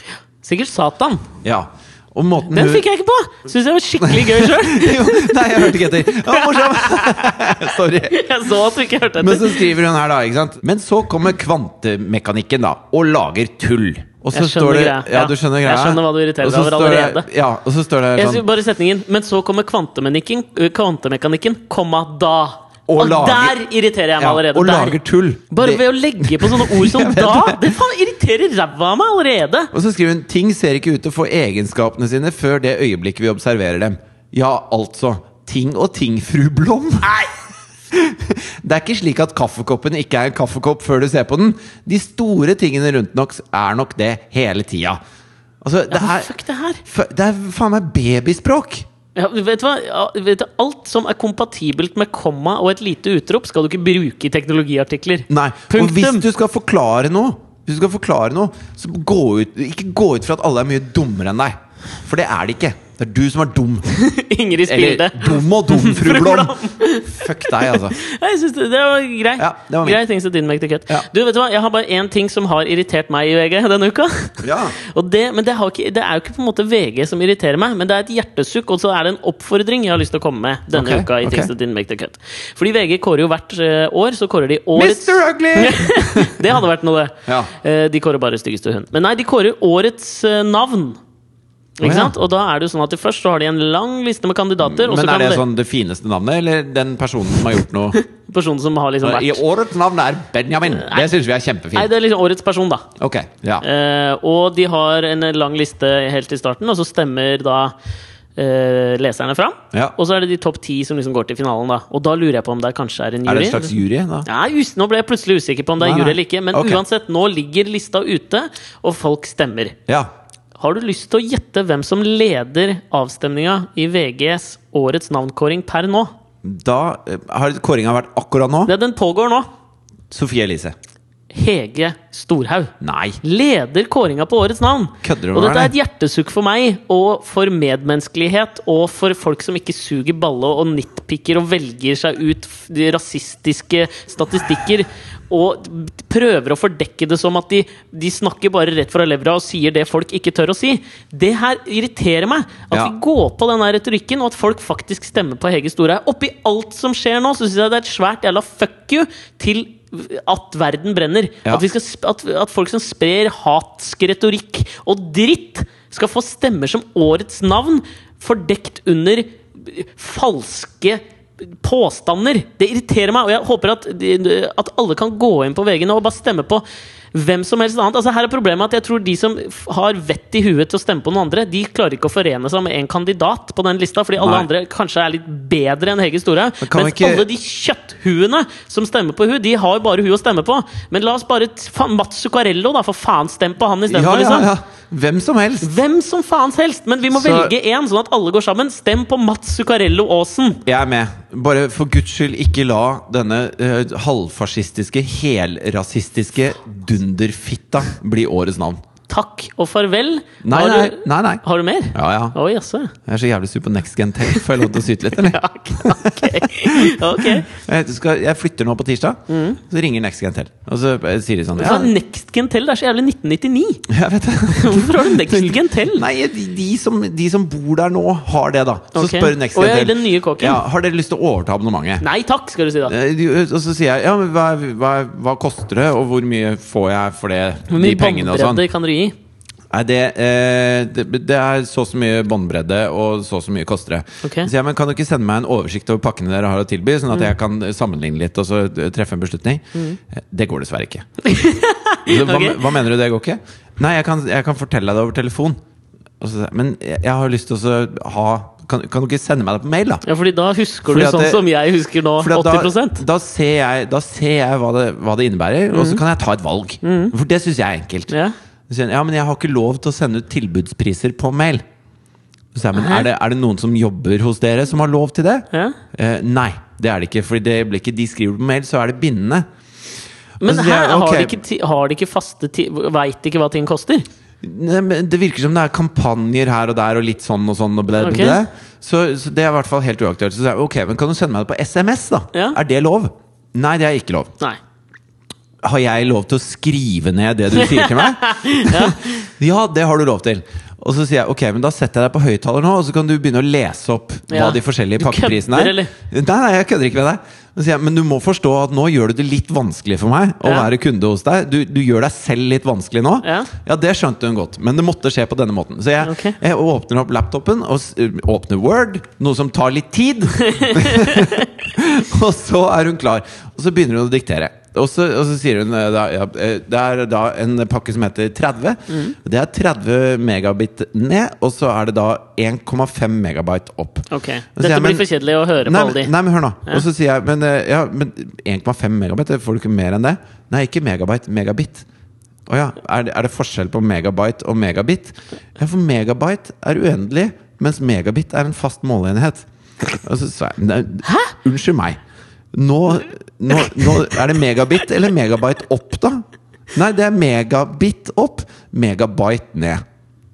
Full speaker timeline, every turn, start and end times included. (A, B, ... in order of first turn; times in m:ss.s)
0:00.4-0:01.2 A
0:01.4-0:02.8 B
0:02.5-0:07.5 A
0:04.0-0:08.2 B
0:08.1-0:09.7 A
0:09.2-0:18.4 B
0:14.3-0:17.3 A
0:18.2-0:25.0 A
0:22.9-0:23.6 B
0:24.2-0:27.7 B
0:25.5-0:29.7 A
0:29.7-0:37.1 B
0:37.9-0:45.0 B
0:45.6-0:46.3 B
0:45.9-0:46.8 A
0:46.8-0:48.8 B
0:49.1-0:56.2 A
0:55.3-1:03.9 B
1:03.9-1:31.0 A
1:04.6-1:08.0 B
1:09.4-1:10.0 B
1:14.4-1:14.8 B
1:20.7-1:21.5 B
1:24.7-1:26.4 B
1:31.8-1:35.4 A
1:31.8-1:32.1 B
1:34.6-1:38.0 B
1:38.1-1:39.4 A
1:39.0-1:41.9 B
1:40.7-1:41.1 A
1:41.7-1:42.8 A
1:43.0-1:43.6 B
1:43.6-1:47.7 A
1:48.4-1:59.8 A
1:53.2-1:54.3 B
1:55.8-1:56.8 B
2:00.6-2:06.1 A
2:06.4-2:08.7 B
2:08.6-2:09.5 A
2:10.1-2:10.7 B
2:11.3-2:51.0 A
2:12.8-2:13.2 B
2:15.0-2:15.7 B
2:51.6-3:14.5 A
3:04.2-3:04.5 B
3:06.6-3:07.3 B
3:13.9-3:15.7 B
3:15.6-3:20.6 A
3:17.1-3:17.5 B
3:20.6-3:28.8 B
3:29.1-3:32.9 A
3:30.4-3:32.4 B
3:33.0-3:41.9 B
3:35.2-3:37.5 A
3:39.3-3:39.6 A
3:41.6-3:43.8 A
3:43.9-3:52.0 B
3:44.5-3:46.0 A
3:48.9-3:50.6 A
3:52.0-3:52.9 A
3:52.8-3:58.6 B
3:57.7-3:59.1 A
3:59.7-4:11.1 B
4:04.2-4:04.5 A
4:11.2-4:12.7 A
4:12.1-4:15.6 B
4:16.2-4:20.0 B
4:20.0-4:23.0 A
4:20.9-4:21.5 B
4:22.2-4:28.1 B
4:25.7-4:26.0 A
4:26.8-4:27.1 A
4:28.7-4:31.6 B
4:32.5-4:39.5 B
4:32.7-4:33.1 A
4:40.4-4:41.4 B
4:40.4-4:44.0 A
4:44.4-4:54.3 B
4:48.0-4:48.4 A
4:55.6-5:41.8 B
4:57.5-4:59.2 A
5:04.3-5:05.9 A
5:10.4-5:10.7 A
5:13.2-5:13.5 A
5:16.0-5:16.4 A
5:20.5-5:21.5 A
5:28.9-5:29.1 A
5:34.1-5:36.1 A
5:42.5-5:52.0 B
5:52.5-5:59.8 B